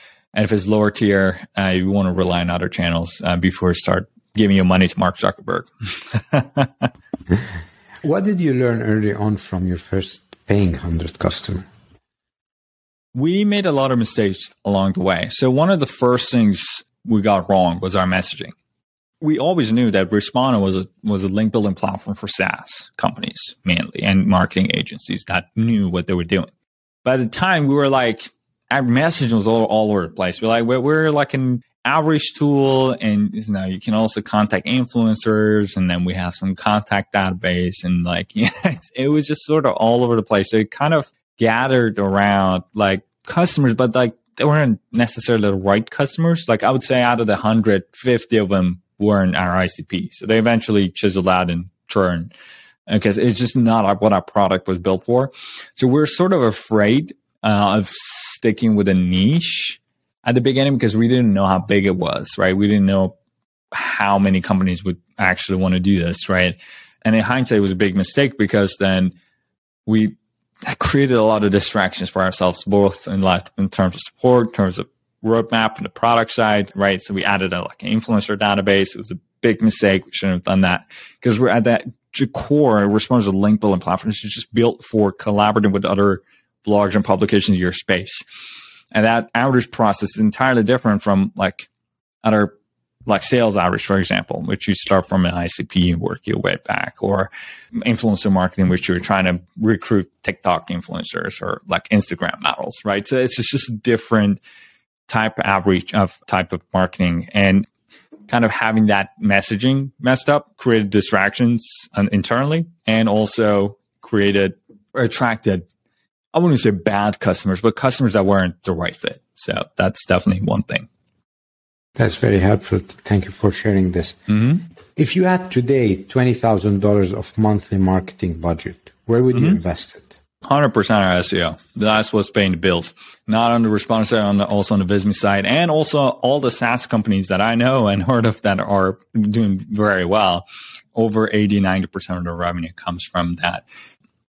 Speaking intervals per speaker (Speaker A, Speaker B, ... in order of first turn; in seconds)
Speaker A: 0.3-6.9, 13.1-18.5, 19.2-26.5, 27.1-52.3, 52.9-63.1, 63.7-69.1, 69.9-88.2, 88.9-91.7, 92.2-92.5, 93.1-104.4, 105.1-107.7, 108.3-115.7, 116.3-120.9, 124.3-124.6, 129.3-129.6, 130.4-140.4, 140.9-143.6
Speaker B: 8.0-11.7, 122.0-124.3, 125.0-130.1